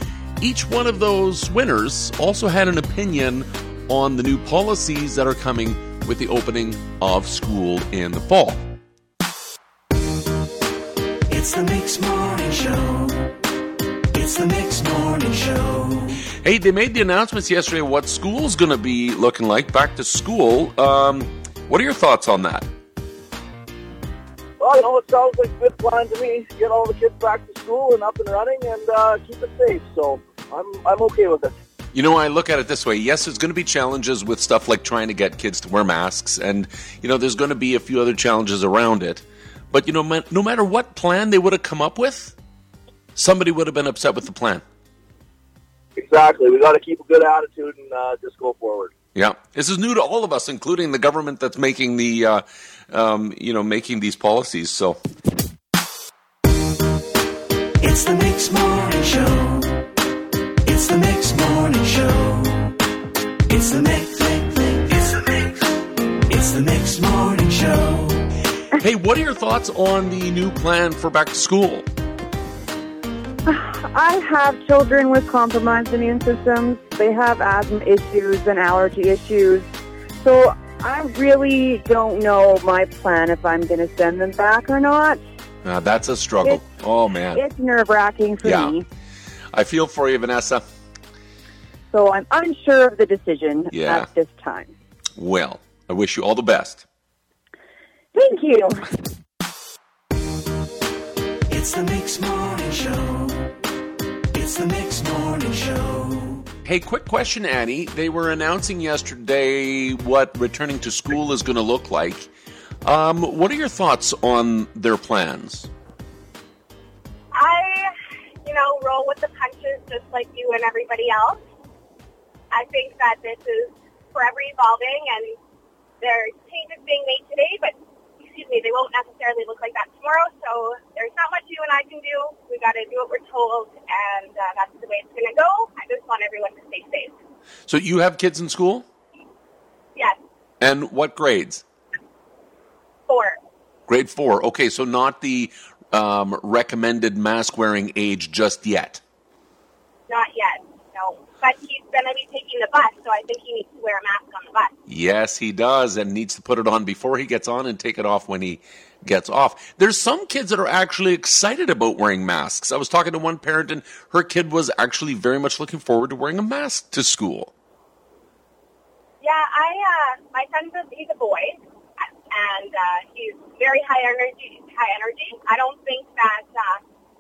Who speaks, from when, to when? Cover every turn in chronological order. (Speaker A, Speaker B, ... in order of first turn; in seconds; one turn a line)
Speaker A: 0.4-8.6
Speaker B: 11.3-13.4
Speaker B: 14.1-16.2
Speaker A: 16.4-22.7
Speaker C: 24.6-31.5
Speaker A: 31.9-42.4
Speaker A: 43.2-44.6
Speaker C: 46.0-48.9
Speaker A: 49.1-55.0
Speaker B: 57.8-59.9
Speaker B: 60.6-62.8
Speaker B: 63.5-65.5
Speaker B: 66.3-68.3
Speaker A: 68.8-71.9
Speaker D: 73.5-79.7
Speaker D: 80.2-85.2
Speaker A: 85.7-87.4
Speaker D: 87.3-88.9
Speaker A: 88.4-88.7
Speaker A: 89.5-90.6
Speaker D: 91.9-94.7
Speaker A: 93.7-94.1
Speaker A: 95.2-96.8
Speaker D: 98.1-98.9
Speaker B: 101.5-103.5
Speaker B: 104.3-106.5
Speaker A: 106.7-112.3
Speaker A: 112.8-115.7
Speaker E: 117.3-121.4
Speaker E: 122.5-125.3
Speaker E: 126.0-137.1
Speaker A: 137.7-138.9
Speaker A: 140.6-141.6
Speaker E: 143.1-143.4
Speaker A: 143.9-149.0
Speaker E: 150.1-154.7
Speaker A: 154.9-167.5
Speaker E: 169.2-171.6
Speaker E: 172.3-176.8